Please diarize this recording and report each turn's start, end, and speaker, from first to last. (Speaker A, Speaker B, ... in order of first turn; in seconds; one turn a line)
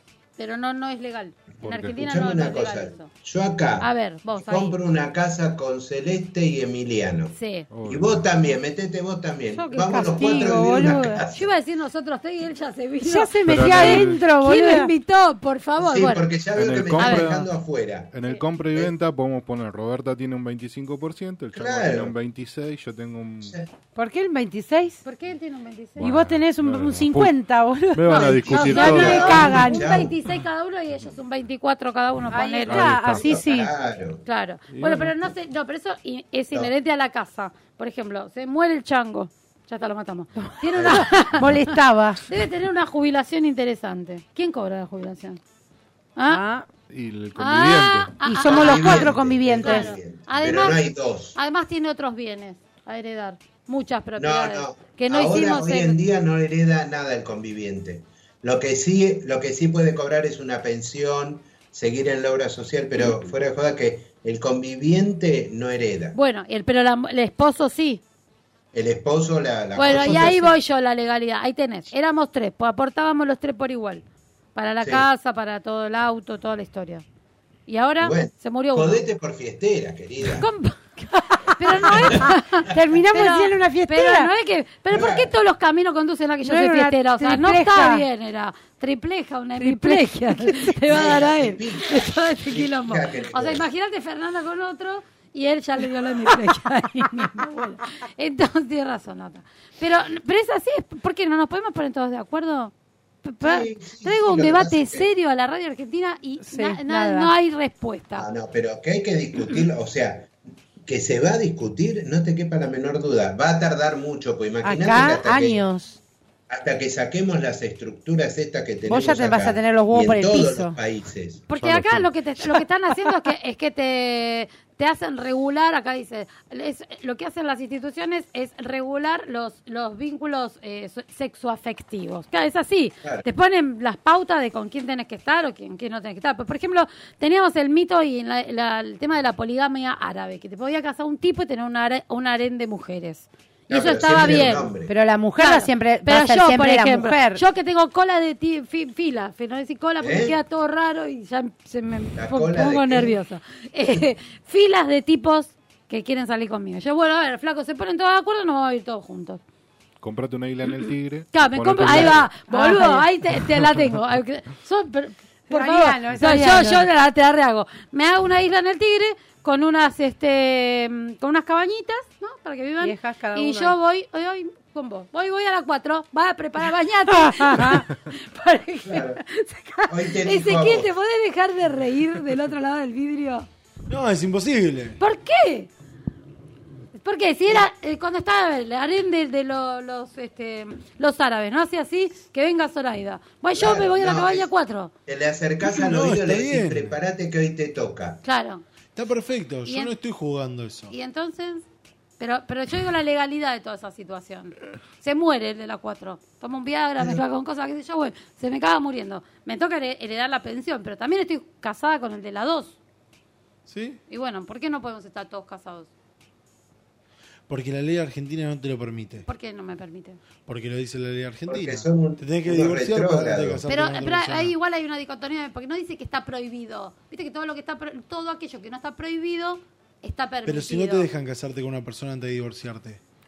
Speaker A: 0.4-3.1
Speaker B: 1.6-11.5
Speaker A: 3.8-4.8
Speaker A: 7.3-7.7
Speaker C: 7.7-8.2
Speaker A: 9.5-16.3
Speaker D: 9.8-11.2
Speaker D: 13.0-14.9
Speaker C: 13.4-14.2
Speaker B: 15.8-18.9
Speaker C: 16.5-17.5
Speaker A: 17.0-17.2
Speaker C: 18.1-23.6
Speaker B: 21.5-22.1
Speaker D: 23.9-25.0
Speaker A: 25.0-26.1
Speaker C: 26.0-27.4
Speaker D: 26.0-29.9
Speaker C: 27.9-29.6
Speaker A: 28.1-33.2
Speaker B: 28.5-30.1
Speaker D: 32.3-33.7
Speaker C: 32.6-33.3
Speaker B: 33.1-34.2
Speaker A: 34.2-41.7
Speaker C: 34.7-35.2
Speaker D: 40.4-42.2
Speaker B: 40.7-41.6
Speaker A: 42.2-45.4
Speaker A: 46.1-46.4
Speaker D: 46.3-46.7
Speaker C: 46.9-48.1
Speaker A: 47.3-56.0
Speaker D: 48.2-49.9
Speaker B: 48.4-51.4
Speaker B: 54.2-66.2
Speaker A: 66.1-68.0
Speaker B: 68.7-70.5
Speaker A: 69.7-74.0
Speaker A: 74.5-77.0
Speaker A: 77.7-79.0
Speaker B: 78.0-80.5
Speaker A: 80.4-102.7
Speaker D: 81.5-84.3
Speaker B: 84.9-85.3
Speaker D: 86.4-88.0
Speaker D: 89.6-90.8
Speaker B: 90.9-93.7
Speaker A: 103.2-108.3
Speaker B: 103.4-105.1
Speaker D: 106.4-107.3
Speaker B: 108.2-110.3
Speaker B: 110.8-115.7
Speaker D: 114.6-116.0
Speaker B: 116.5-121.5
Speaker D: 118.8-120.8
Speaker A: 121.5-144.7
Speaker C: 121.6-122.1
Speaker B: 143.7-144.9
Speaker D: 144.9-147.4
Speaker A: 145.4-159.4
Speaker B: 150.0-150.3
Speaker B: 152.1-153.1
Speaker C: 160.0-162.3
Speaker A: 160.7-183.5
Speaker D: 162.5-163.1
Speaker D: 165.5-166.9
Speaker D: 172.8-173.8
Speaker D: 177.1-177.9
Speaker B: 178.8-179.2
Speaker B: 179.9-180.9
Speaker E: 183.9-185.0
Speaker A: 185.0-185.7
Speaker A: 186.9-194.9
Speaker B: 193.5-194.5
Speaker B: 195.1-198.2
Speaker E: 195.6-196.9
Speaker A: 198.2-198.6
Speaker E: 198.9-200.9
Speaker A: 199.6-199.9
Speaker A: 200.9-201.7
Speaker A: 202.2-212.8
Speaker E: 213.7-214.0
Speaker A: 214.1-215.9
Speaker E: 217.5-219.3
Speaker A: 219.2-220.2
Speaker E: 220.4-224.5
Speaker B: 221.5-223.7
Speaker A: 223.7-231.1
Speaker E: 230.4-233.0